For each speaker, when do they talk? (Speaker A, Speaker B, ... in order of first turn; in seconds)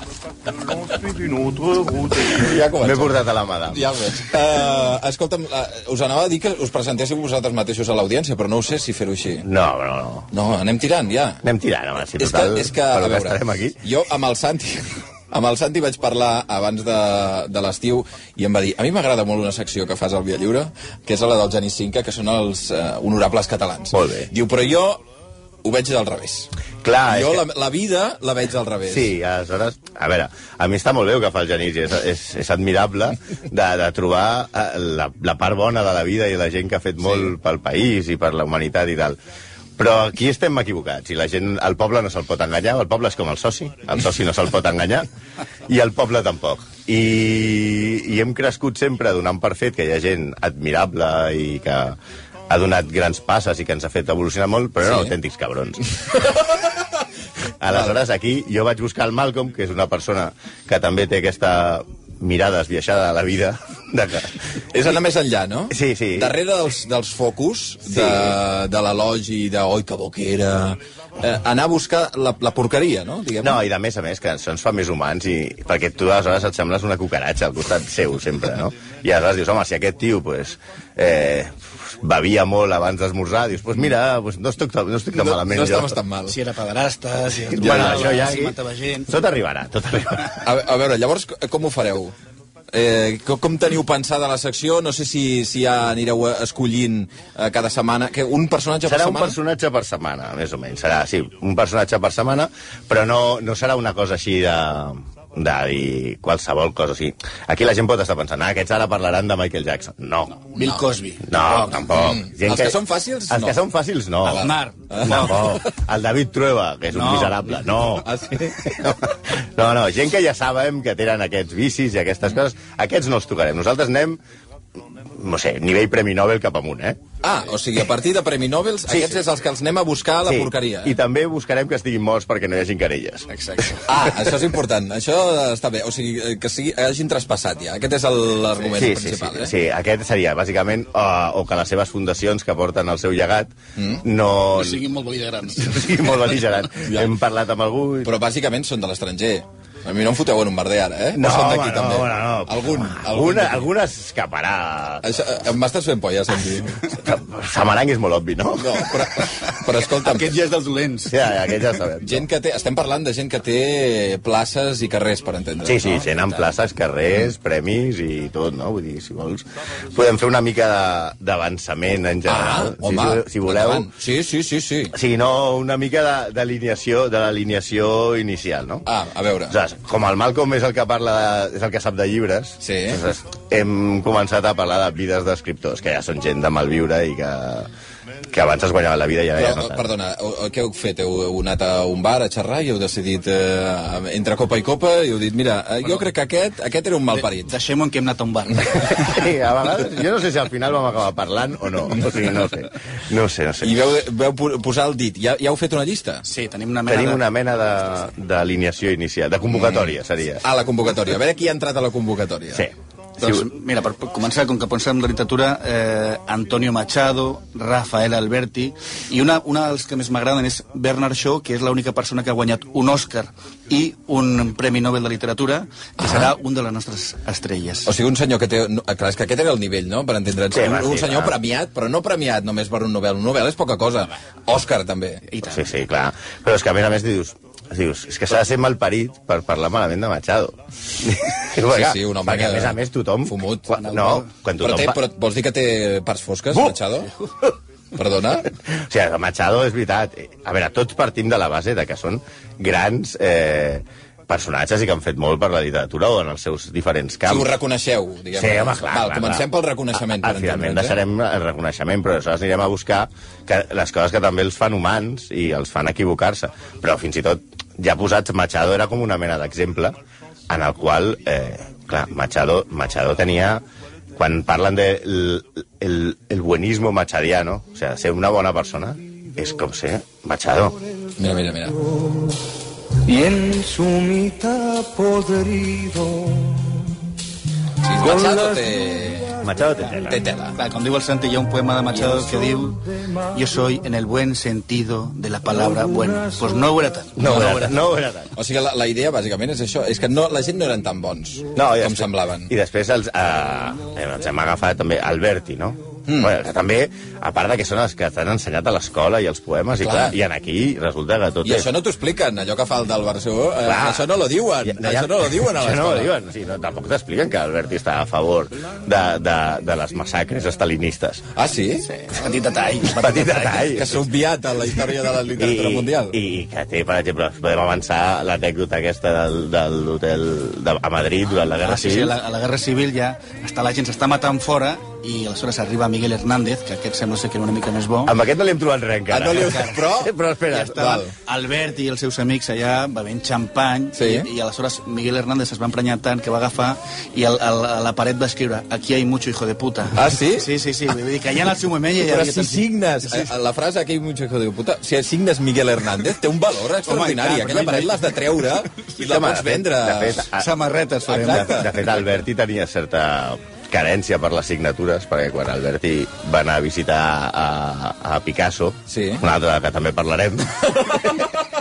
Speaker A: 0.5-2.6, 286.3-286.6
Speaker B: 2.2-9.4, 10.3-11.4, 12.2-25.0, 25.6-26.5, 27.1-29.1, 37.0-37.3, 54.8-55.1, 56.1-56.8, 57.7-58.0, 64.7-73.6, 85.2-86.3, 87.7-88.0, 90.4-92.1, 92.7-99.3, 110.5-110.8, 111.9-113.6, 114.2-115.7, 117.9-118.9, 127.2-131.0, 133.8-139.5, 143.8-144.0, 146.8-147.1, 148.0-153.7, 155.0-156.9, 158.6-160.4, 162.0-166.1, 172.3-174.9, 178.8-179.6, 182.6-183.0, 189.3-197.5, 203.6-206.2, 209.5-212.7, 226.0-226.3, 227.8-235.2, 241.7-243.7, 244.6-247.1, 247.9-248.5, 257.2-261.0, 281.2-281.8, 287.8-289.4, 290.0-290.6, 297.2-297.6, 298.4-302.5, 306.1-306.3, 309.8-310.2, 311.4-316.1, 321.3-321.9, 323.7-326.1, 339.1-340.1, 340.8-341.1, 343.9-344.3, 349.9-350.5, 352.0-360.3, 361.1-362.1, 368.9-369.2, 370.7-371.4
Speaker C: 2.8-3.8, 9.4-10.3, 11.4-13.8, 23.9-24.3, 26.8-27.4, 28.9-39.2, 39.8-45.0, 45.7-52.0, 52.5-55.8, 57.6-64.3, 65.7-66.3, 67.9-68.3, 73.4-86.0, 87.5-88.5, 89.1-90.5, 98.8-110.4, 111.2-112.8, 113.3-114.5, 115.0-124.2, 125.2-127.0, 130.2-133.3, 138.7-144.8, 145.6-148.1, 151.1-155.2, 156.9-159.0, 161.1-162.2, 165.6-173.9, 174.9-178.8, 179.5-187.7, 188.3-189.9, 198.9-203.8, 206.9-210.4, 212.5-213.5, 230.5-231.3, 235.4-245.0, 248.6-257.5, 258.3-259.4, 260.0-269.9, 270.5-273.6, 274.2-280.8, 289.4-290.2, 297.2-298.3, 301.5-311.7, 313.6-314.1, 314.6-321.2, 322.9-324.0, 325.4-332.1, 338.1-340.8, 359.0-360.5, 361.1-371.3
Speaker D: 86.3-89.2, 110.5-111.2, 114.3-115.4, 116.9-117.5, 133.3-133.9, 144.5-146.0, 159.7-161.2, 197.2-199.2, 206.2-207.2, 213.2-227.9, 235.3-235.7, 243.7-244.3, 290.6-297.8, 321.8-323.7, 331.6-338.1, 339.3-339.9, 340.5-353.3, 356.8-358.3, 360.3-361.6
Speaker E: 283.1-286.2